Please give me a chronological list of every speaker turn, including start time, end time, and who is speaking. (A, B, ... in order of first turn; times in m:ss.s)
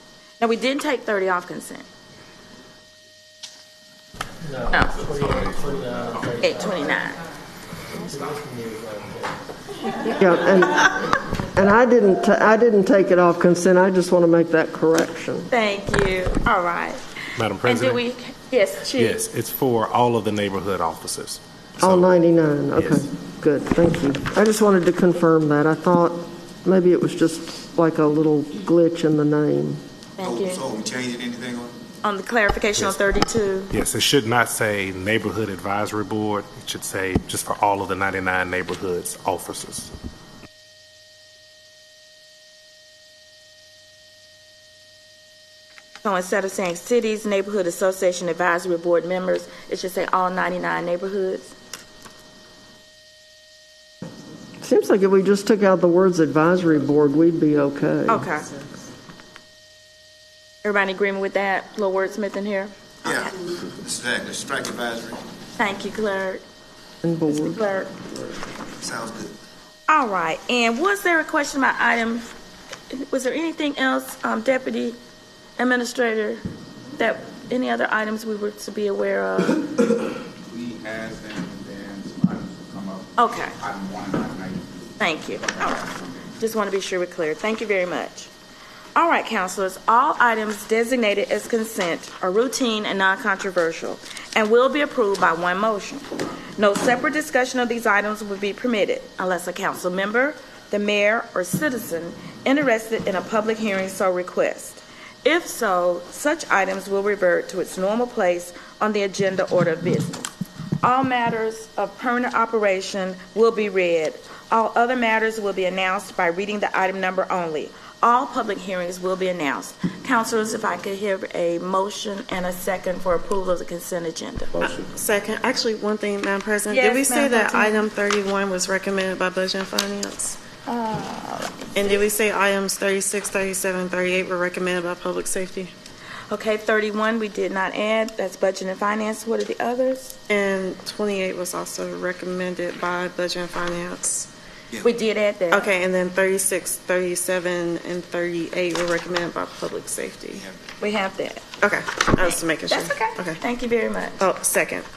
0:00.4-0:01.8 A
0:04.5-0:06.8 B
0:04.7-0:05.2 A
0:05.1-0:05.6 C
0:06.4-0:07.2 A
0:08.1-0:09.2 B
0:10.1-0:15.5 B
0:15.5-0:17.0 A
0:17.4-0:18.0 C
0:17.6-0:19.2 A
0:19.0-0:22.1 C
0:21.8-0:29.8 B
0:22.8-0:23.0 C
0:30.2-0:30.6 A
0:30.2-0:31.8 D
0:32.0-0:33.7 A
0:33.7-0:39.9 C
0:46.0-0:51.5 A
0:54.6-0:58.3 B
0:58.1-0:58.5 A
1:00.6-1:03.4 A
1:03.0-1:05.2 D
1:05.6-1:06.4 A
1:07.0-1:07.6 B
1:07.3-1:08.0 A
1:08.8-1:09.3 D
1:09.9-1:12.2 A
1:12.9-1:15.0 A
1:15.6-1:16.4 A
1:17.0-1:19.8 A
1:20.5-1:25.1 E
1:23.2-1:23.6 A
1:25.0-1:28.3 A
1:29.0-1:50.3 A
1:50.8-2:04.6 A
2:04.6-2:10.4 F
2:06.7-2:07.9 A
2:10.7-2:11.9 A
2:11.8-2:15.7 F
2:16.3-2:20.2 A
2:20.3-2:24.3 F
2:24.8-2:25.7 A
2:25.5-2:30.4 F
2:30.8-2:31.4 A
2:31.6-2:33.4 F
2:32.2-2:34.2 A
2:34.2-2:34.9 F